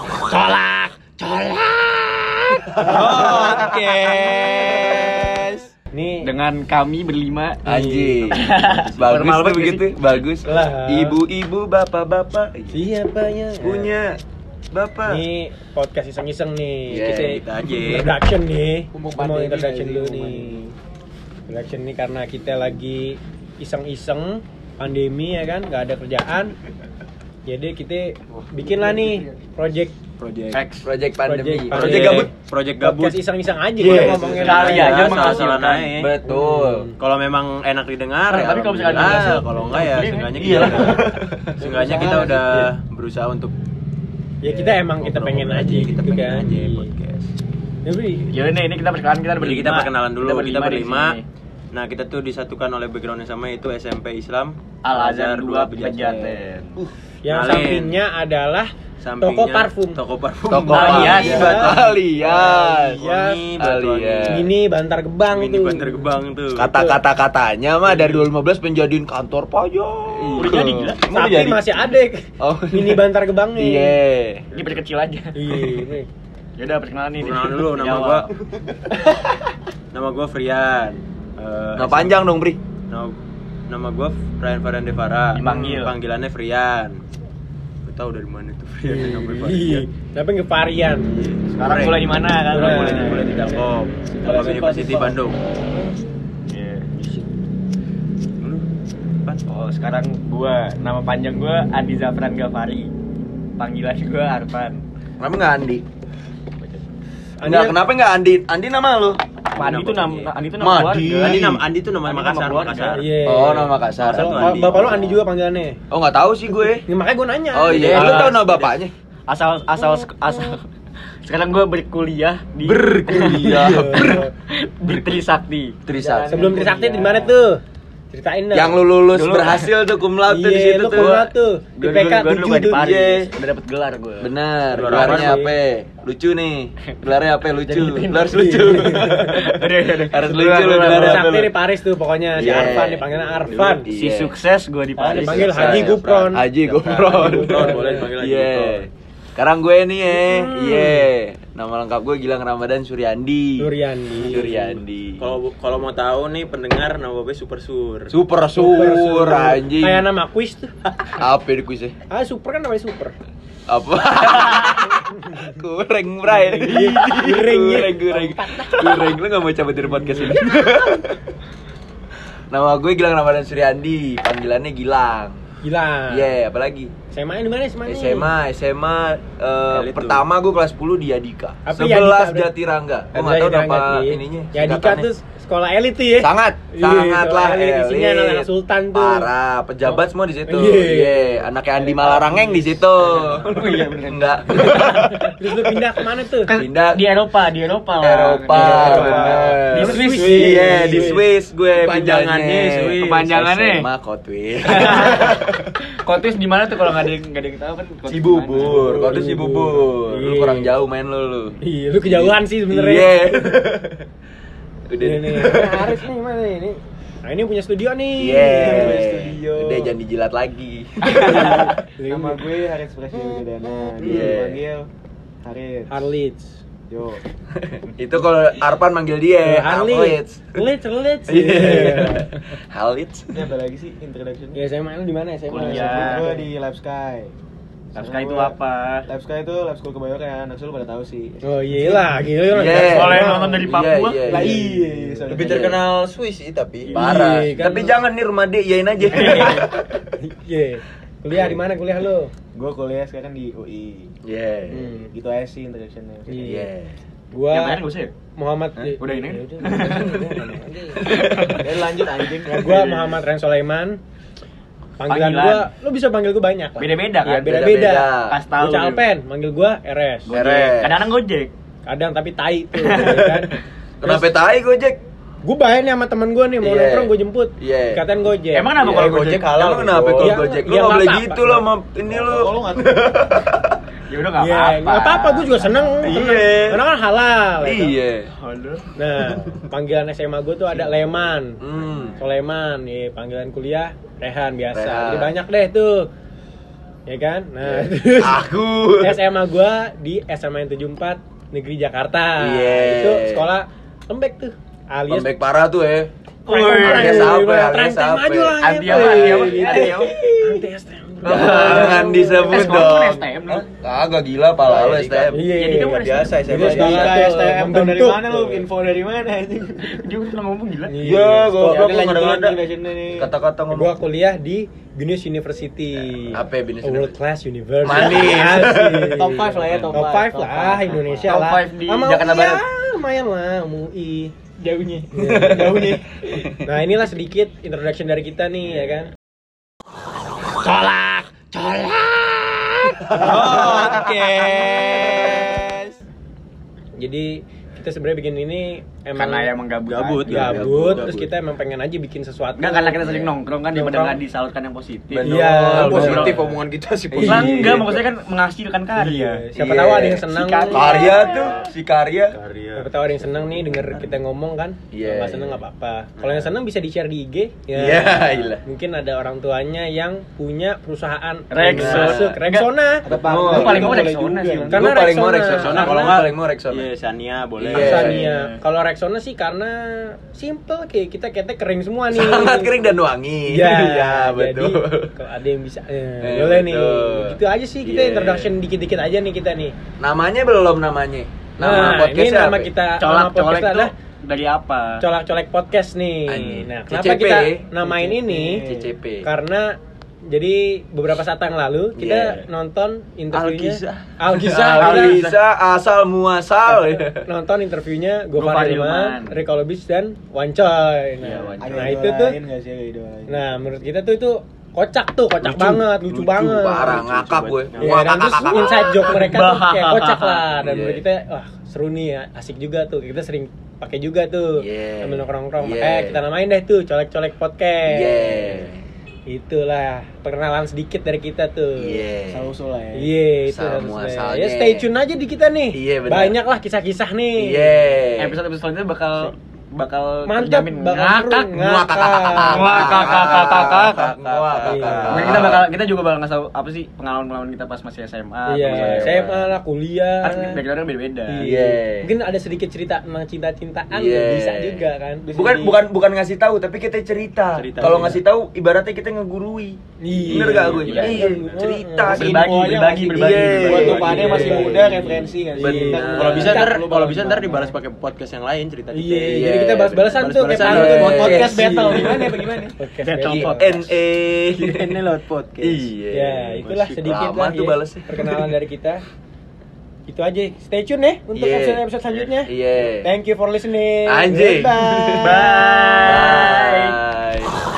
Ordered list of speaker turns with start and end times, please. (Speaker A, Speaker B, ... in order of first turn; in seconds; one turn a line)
Speaker A: 0.2-5.3
Speaker B: 2.7-5.4
Speaker C: 3.1-3.4
Speaker D: 5.9-6.3
Speaker A: 6.2-7.7
Speaker B: 7.7-12.9
Speaker D: 7.7-8.1
Speaker A: 8.3-10.0
Speaker D: 10.4-11.2
Speaker D: 12.7-14.0
Speaker B: 13.6-14.2
Speaker B: 14.7-15.2
Speaker D: 15.1-20.6
Speaker B: 16.9-17.4
Speaker E: 17.3-18.1
Speaker C: 18.9-20.7
Speaker D: 21.5-26.6
Speaker D: 27.5-30.0
Speaker E: 30.2-30.6
Speaker A: 30.5-30.9
Speaker B: 30.8-32.3
Speaker D: 31.2-35.5
Speaker E: 31.7-33.2
Speaker B: 33.8-34.5
Speaker E: 33.9-36.1
Speaker C: 34.1-34.4
Speaker A: 34.3-35.9
Speaker B: 36.0-36.9
Speaker D: 36.3-36.9
Speaker E: 37.0-41.0
Speaker A: 38.3-41.0
Speaker B: 40.4-41.9
Speaker E: 41.6-43.5
Speaker D: 41.6-42.6
Speaker D: 44.4-47.0
Speaker E: 44.5-47.3
Speaker D: 47.9-48.4
Speaker A: 48.3-51.2
Speaker E: 49.4-51.2
Speaker E: 51.7-56.3
Speaker A: 54.8-56.8
Speaker C: 56.0-56.3
Speaker D: 57.2-60.0
Speaker E: 57.3-58.0
Speaker E: 59.0-61.8
Speaker B: 60.5-63.1
Speaker A: 60.7-61.8
Speaker D: 60.8-63.4
Speaker E: 62.8-64.5
Speaker B: 63.6-64.5
Speaker D: 64.3-67.0
Speaker E: 65.3-66.7
Speaker B: 66.6-71.9
Speaker A: 67.9-68.2
Speaker A: 70.2-71.0
Speaker D: 71.1-74.0
Speaker B: 72.4-74.5
Speaker A: 74.5-75.4
Speaker D: 75.3-76.1
Speaker A: 76.6-78.3
Speaker E: 77.2-78.3
Speaker E: 79.9-82.2
Speaker B: 81.8-82.6
Speaker E: 82.9-87.0
Speaker A: 85.3-86.0
Speaker E: 87.8-89.8
Speaker D: 88.8-91.1
Speaker A: 89.4-89.8
Speaker E: 91.1-95.4
Speaker A: 91.6-93.3
Speaker D: 92.5-93.6
Speaker A: 94.2-95.2
Speaker A: 96.5-96.9
Speaker E: 98.4-98.7
Speaker A: 99.5-102.9
Speaker A: 103.6-104.8
Speaker B: 105.2-105.8
Speaker D: 107.4-107.8
Speaker B: 107.4-109.2
Speaker A: 109.5-111.5
Speaker E: 109.6-110.3
Speaker B: 110.6-111.6
Speaker E: 111.2-113.1
Speaker A: 112.0-113.0
Speaker D: 113.0-115.8
Speaker B: 113.2-114.9
Speaker E: 114.0-115.2
Speaker B: 115.9-116.8
Speaker D: 116.8-118.3
Speaker B: 117.5-118.9
Speaker A: 117.7-118.4
Speaker E: 118.2-118.8
Speaker A: 119.3-120.6
Speaker A: 121.2-126.8
Speaker B: 122.6-124.2
Speaker D: 123.5-124.3
Speaker B: 125.9-126.5
Speaker D: 126.3-128.8
Speaker C: 126.4-127.3
Speaker B: 128.5-131.3
Speaker A: 129.1-129.7
Speaker D: 130.2-132.9
Speaker A: 130.9-135.0
Speaker B: 132.6-133.3
Speaker B: 134.2-141.6
Speaker E: 134.7-135.4
Speaker D: 134.8-135.6
Speaker A: 137.7-141.3
Speaker D: 138.3-139.4
Speaker D: 140.8-143.9
Speaker B: 142.3-143.1
Speaker A: 142.4-142.8
Speaker A: 143.5-145.9
Speaker B: 143.8-144.4
Speaker E: 145.0-148.9
Speaker B: 145.1-155.3
Speaker D: 145.1-146.5
Speaker D: 147.0-148.1
Speaker D: 150.1-151.1
Speaker D: 153.6-154.8
Speaker E: 155.2-158.1
Speaker B: 158.1-160.1
Speaker D: 158.6-160.7
Speaker B: 161.1-162.0
Speaker D: 162.1-163.2
Speaker B: 163.7-171.2
Speaker D: 165.0-165.5
Speaker D: 166.3-169.2
Speaker D: 169.8-170.4
Speaker B: 172.5-175.4
Speaker D: 175.6-176.3
Speaker B: 176.1-176.9
Speaker D: 177.1-178.3
Speaker B: 177.9-185.1
Speaker E: 179.7-180.2
Speaker D: 181.7-182.5
Speaker D: 183.1-189.3
Speaker B: 186.2-195.8
Speaker D: 190.5-192.6
Speaker A: 193.0-195.0
Speaker D: 195.2-196.6
Speaker A: 196.5-201.2
Speaker B: 196.5-197.2
Speaker B: 198.0-205.8
Speaker D: 198.6-201.2
Speaker C: 198.8-199.4
Speaker E: 201.7-203.2
Speaker A: 202.9-203.9
Speaker A: 204.7-205.4
Speaker A: 205.9-209.2
Speaker B: 208.1-214.1
Speaker D: 208.6-210.7
Speaker D: 211.6-213.5
Speaker B: 214.9-216.0
Speaker D: 215.0-219.0
Speaker B: 218.2-221.8
Speaker C: 218.5-220.0
Speaker D: 221.1-222.4
Speaker C: 222.1-224.9
Speaker B: 224.0-224.6
Speaker C: 225.4-226.1
Speaker D: 225.9-226.6
Speaker C: 226.9-227.2
Speaker B: 227.7-230.6
Speaker D: 229.4-232.4
Speaker B: 231.3-233.3
Speaker C: 233.3-234.6
Speaker D: 234.6-236.5
Speaker A: 235.5-236.3
Speaker C: 235.5-237.3
Speaker A: 237.9-239.1
Speaker C: 237.9-241.4
Speaker D: 241.4-243.6
Speaker B: 242.5-244.6
Speaker A: 242.7-245.0
Speaker C: 244.2-245.8
Speaker E: 245.3-246.9
Speaker B: 245.3-245.8
Speaker B: 246.9-250.0
Speaker D: 246.9-248.0
Speaker A: 249.1-249.7
Speaker D: 249.1-249.6
Speaker D: 250.2-252.3
Speaker B: 251.3-251.6
Speaker C: 252.5-254.1
Speaker B: 254.2-255.0
Speaker D: 254.7-255.1
Speaker C: 255.1-256.6
Speaker D: 256.3-256.7
Speaker B: 256.4-257.0
Speaker D: 257.3-257.8
Speaker A: 257.5-258.1
Speaker D: 258.4-261.1
Speaker A: 259.0-260.4
Speaker B: 261.0-261.6
Speaker C: 261.5-263.2
Speaker D: 262.4-264.0
Speaker D: 265.0-270.3
Speaker A: 265.1-265.7
Speaker A: 266.8-267.6
Speaker B: 267.4-268.4
Speaker A: 268.3-269.0
Speaker A: 270.3-271.5
Speaker B: 270.3-271.1
Speaker D: 271.9-273.5
Speaker A: 272.8-273.2
Speaker B: 272.8-275.0
Speaker D: 274.0-274.4
Speaker D: 275.4-278.8
Speaker B: 276.6-278.0
Speaker A: 278.5-279.8
Speaker B: 278.8-283.7
Speaker E: 278.9-280.3
Speaker D: 280.2-281.7
Speaker C: 282.1-283.0
Speaker A: 284.1-285.9
Speaker D: 284.4-288.0
Speaker B: 286.0-286.8
Speaker B: 287.6-288.3
Speaker A: 288.4-288.9
Speaker D: 289.0-291.6
Speaker B: 289.2-289.6
Speaker B: 291.6-292.2
Speaker D: 292.2-296.1
Speaker B: 294.7-295.4
Speaker D: 297.1-298.5
Speaker B: 297.6-299.2
Speaker D: 299.0-305.4
Speaker B: 302.4-303.5
Speaker B: 305.1-306.1
Speaker A: 306.5-307.4
Speaker D: 306.5-312.8
Speaker B: 306.7-309.7
Speaker A: 308.6-310.1
Speaker B: 311.2-315.4
Speaker A: 311.3-313.7
Speaker C: 314.7-315.1
Speaker A: 314.8-317.3
Speaker D: 315.3-318.7
Speaker E: 316.0-317.2
Speaker C: 316.5-319.9
Speaker A: 319.8-320.9
Speaker D: 320.9-321.7
Speaker B: 321.0-322.0
Speaker E: 321.3-322.6
Speaker C: 321.5-323.3
Speaker B: 323.1-324.0
Speaker D: 323.7-334.3
Speaker B: 326.3-327.2
Speaker B: 327.8-329.2
Speaker C: 327.9-328.2
Speaker C: 329.1-331.3
Speaker A: 329.5-330.0
Speaker A: 331.2-332.6
Speaker A: 334.6-335.6
Speaker D: 335.1-335.8
Speaker B: 335.2-336.7
Speaker C: 335.4-336.1
Speaker D: 336.6-339.1
Speaker A: 340.6-345.2
Speaker B: 343.0-345.8
Speaker D: 347.0-349.5
Speaker A: 349.1-350.7
Speaker E: 349.9-351.2
Speaker D: 350.2-353.2
Speaker B: 350.3-351.2
Speaker A: 352.6-356.6
Speaker D: 353.7-354.2
Speaker B: 355.1-356.5
Speaker D: 355.2-356.4
Speaker E: 356.2-357.1
Speaker B: 357.1-358.0
Speaker D: 357.1-357.9
Speaker A: 357.2-361.7
Speaker D: 358.9-361.2
Speaker B: 359.6-360.1
Speaker B: 360.7-362.4
Speaker E: 362.5-362.8
Speaker D: 362.8-373.1
Speaker B: 364.9-365.6
Speaker E: 366.2-366.5
Speaker B: 367.7-368.6
Speaker A: 371.5-372.7
Speaker B: 371.7-372.4
Speaker C: 373.0-374.8
Speaker B: 373.1-374.1
Speaker A: 373.3-374.8
Speaker B: 374.7-376.9
Speaker D: 374.7-376.2
Speaker E: 375.5-377.9
Speaker B: 377.6-378.3
Speaker A: 377.7-378.6
Speaker D: 377.8-382.8
Speaker B: 382.1-385.1
Speaker D: 383.5-389.8
Speaker B: 386.2-388.6
Speaker B: 390.0-392.7
Speaker D: 391.6-393.9
Speaker A: 393.0-395.1
Speaker D: 395.0-398.7
Speaker B: 396.3-397.7
Speaker C: 397.8-398.9
Speaker B: 398.6-399.3
Speaker D: 399.2-399.7
Speaker D: 400.3-405.4
Speaker B: 402.0-402.4
Speaker B: 403.3-407.3
Speaker D: 407.2-412.4
Speaker A: 408.3-409.4
Speaker A: 411.2-412.0
Speaker C: 411.6-413.4
Speaker D: 413.3-417.0
Speaker B: 415.4-419.2
Speaker A: 416.9-420.5
Speaker D: 417.8-428.7
Speaker B: 420.6-421.0
Speaker B: 424.6-426.2
Speaker B: 427.9-428.8
Speaker D: 429.3-432.0
Speaker B: 431.8-432.5
Speaker C: 432.3-433.1
Speaker D: 432.9-437.8
Speaker B: 433.4-434.9
Speaker B: 435.7-436.4
Speaker B: 437.4-438.4
Speaker A: 438.2-441.5
Speaker D: 440.2-443.3
Speaker B: 441.5-445.7
Speaker A: 442.4-449.5
Speaker D: 444.6-445.3
Speaker D: 448.5-450.6
Speaker B: 448.7-449.3
Speaker A: 450.2-451.5
Speaker D: 451.3-455.2
Speaker B: 451.4-452.1
Speaker B: 453.9-454.8
Speaker C: 455.2-455.8
Speaker B: 455.3-462.6
Speaker E: 457.5-458.2
Speaker D: 460.0-462.2
Speaker A: 460.3-461.3
Speaker C: 461.0-461.3
Speaker C: 462.0-467.7
Speaker A: 462.1-465.1
Speaker B: 463.1-466.6
Speaker D: 463.9-464.9
Speaker D: 465.5-466.8
Speaker E: 466.1-469.5
Speaker D: 468.9-473.8
Speaker B: 469.3-471.6
Speaker E: 470.1-471.4
Speaker C: 470.9-472.8
Speaker A: 471.9-472.2
Speaker A: 473.0-473.9
Speaker B: 473.2-475.0
Speaker E: 474.5-475.9
Speaker B: 475.6-478.5
Speaker D: 476.1-479.0
Speaker E: 476.6-477.1
Speaker D: 480.1-486.1
Speaker B: 481.3-481.9
Speaker B: 482.4-483.1
Speaker B: 484.1-485.5
Speaker A: 485.2-487.0
Speaker B: 486.0-487.6